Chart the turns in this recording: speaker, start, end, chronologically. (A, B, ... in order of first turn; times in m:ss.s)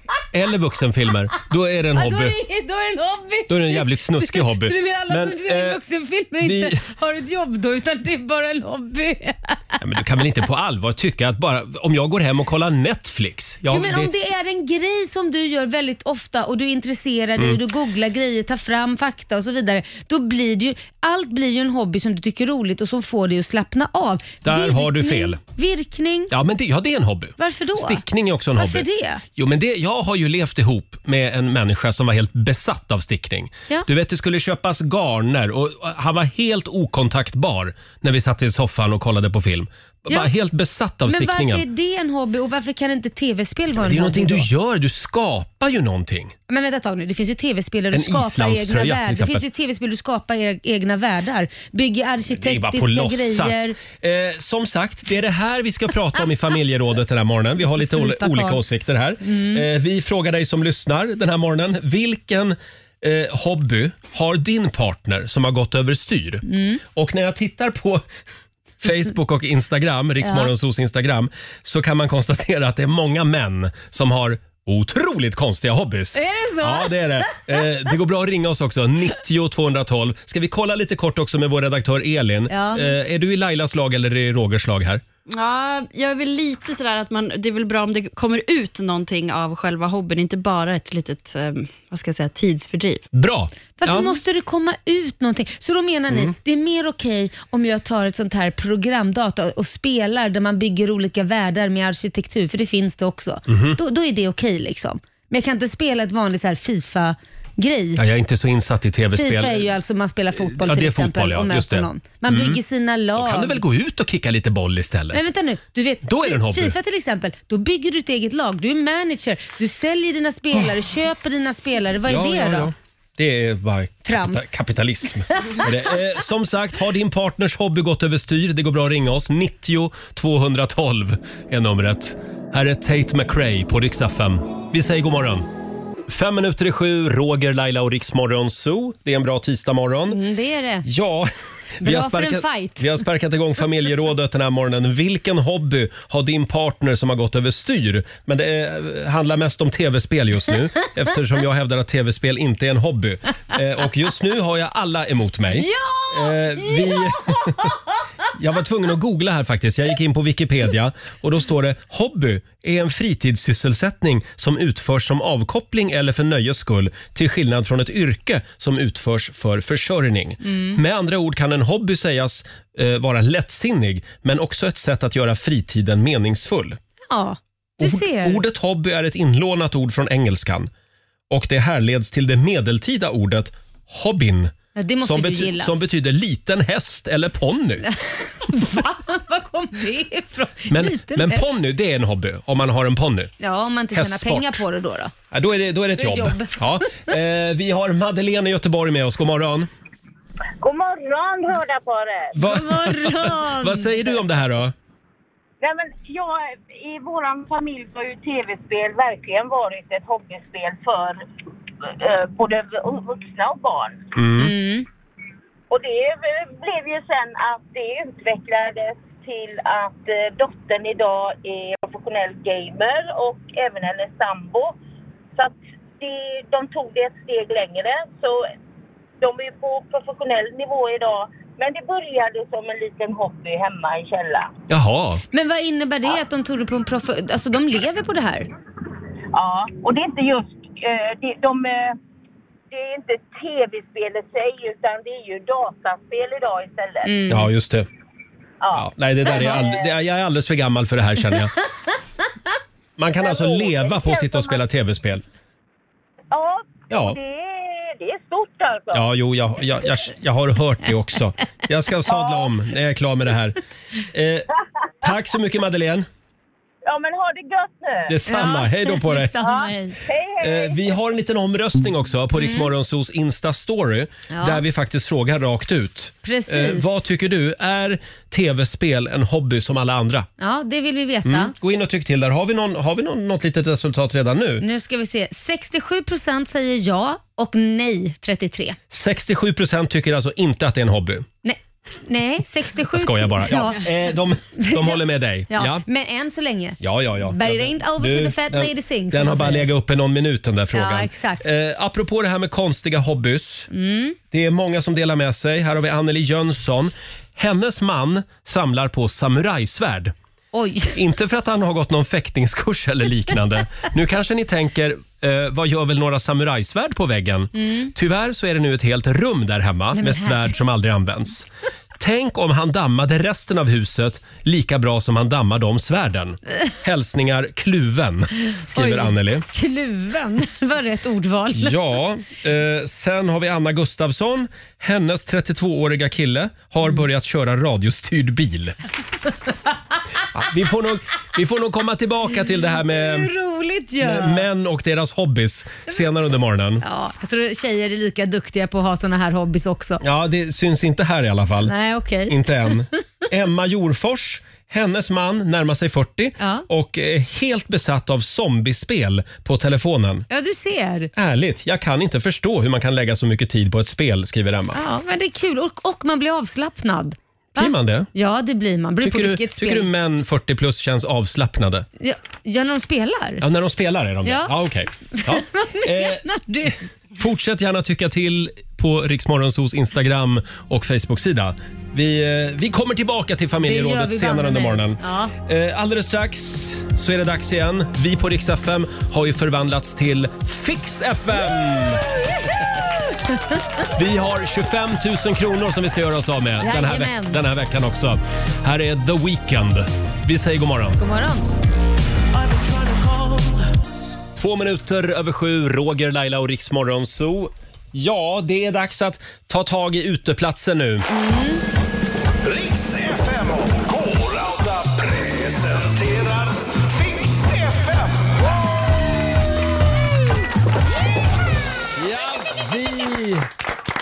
0:00.3-0:02.4 A
0:02.0-0:09.8 B
0:03.5-0:05.8 A
0:06.4-0:06.8 A
0:09.8-0:14.1 A
0:13.7-0:26.3 B
0:24.4-0:25.4 A
0:26.3-0:41.6 A
0:27.4-0:28.0 B
0:28.6-0:29.2 B
0:41.1-0:44.5 B
0:43.8-0:46.3 A
0:46.5-0:53.8 B
0:47.9-0:49.4 A
0:52.4-1:08.0 A
0:57.6-0:58.6 B
0:59.2-0:59.6 B
1:06.4-1:06.8 B
1:08.8-1:25.0 A
1:10.2-1:10.5 B
1:16.2-1:17.4 B
1:22.5-1:22.9 B
1:25.3-1:33.0 C
1:33.1-1:34.2 A
1:33.8-1:48.0 B
1:43.5-1:43.8 A
1:48.0-1:49.7 A
1:49.1-1:53.6 B
1:50.4-1:52.6 A
1:53.2-1:55.2 A
1:55.1-2:02.7 B
1:56.0-1:56.8 A
2:02.1-2:15.5 A
2:04.0-2:04.6 B
2:16.1-2:20.2 A
2:20.1-2:20.9 B
2:20.8-2:37.7 A
2:21.8-2:22.9 B
2:35.5-2:37.8 B
2:38.4-2:56.8 A
2:50.4-2:50.8 B
2:57.1-2:58.4 B
2:57.8-3:00.7 A
3:01.3-3:04.5 A
3:04.8-3:05.7 B
3:05.0-3:07.8 A
3:07.8-3:11.4 B
3:10.7-3:13.3 A
3:13.4-3:15.1 B
3:13.9-3:14.6 A
3:15.3-3:19.7 A
3:16.0-3:17.0 B
3:20.6-3:22.4 D
3:22.4-3:24.7 A
3:22.4-3:24.2 B
3:25.6-3:31.2 D
3:31.8-3:34.0 D
3:34.2-3:34.5 A
3:34.4-3:34.9 B
3:35.7-3:44.8 D
3:45.4-3:48.5 D
3:49.2-3:54.5 D
3:54.7-3:55.2 A
3:55.3-3:58.5 B
3:59.3-4:02.0 D
4:02.7-4:07.1 D
4:07.0-4:07.5 B
4:07.3-4:07.9 A
4:08.6-4:09.8 D
4:08.7-4:11.5 A
4:13.0-4:15.2 A
4:13.2-4:14.6 D
4:16.3-4:19.0 D
4:16.9-4:17.2 A
4:18.9-4:23.6 A
4:22.1-4:22.5 D
4:24.1-4:24.5 A
4:25.0-4:26.1 A
4:26.8-4:28.1 D
4:28.1-4:29.4 A
4:28.3-4:30.0 B
4:29.4-4:30.9 D
4:30.4-4:40.3 A
4:32.4-4:32.7 B
4:34.3-4:34.6 B
4:36.2-4:37.0 B
4:40.4-4:41.5 B
4:41.2-4:44.6 A
4:44.6-4:48.8 B
4:48.9-4:51.3 A
4:51.4-4:53.8 B
4:52.9-4:55.8 A
4:54.6-4:59.7 B
4:56.8-5:03.7 A
5:00.7-5:01.4 B
5:03.7-5:04.2 B
5:04.3-5:10.1 A
5:10.5-5:11.0 B
5:11.0-5:21.5 A
5:17.6-5:17.9 B
5:19.9-5:20.6 B
5:22.0-5:29.4 A
5:28.7-5:31.8 B
5:31.5-5:38.8 A
5:40.3-5:43.3 A
5:42.8-5:44.4 B
5:44.0-5:46.8 A
5:46.8-5:50.0 B
5:50.0-5:51.7 A
5:51.7-5:52.8 B
5:52.3-6:00.3 A
5:56.4-5:56.7 B
6:00.3-6:01.1 B
6:01.2-6:04.8 A
6:04.7-6:09.9 B
6:07.6-6:08.1 A
6:09.0-6:11.9 A
6:12.0-6:13.4 B
6:13.4-6:32.0 A
6:14.2-6:14.5 B
6:15.1-6:16.8 B
6:23.6-6:25.3 B
6:33.9-6:41.0 A
6:36.6-6:37.4 B
6:41.0-6:41.5 B
6:44.4-6:51.1 A
6:51.1-6:51.6 B
6:52.4-6:58.4 E
7:02.0-7:03.5 A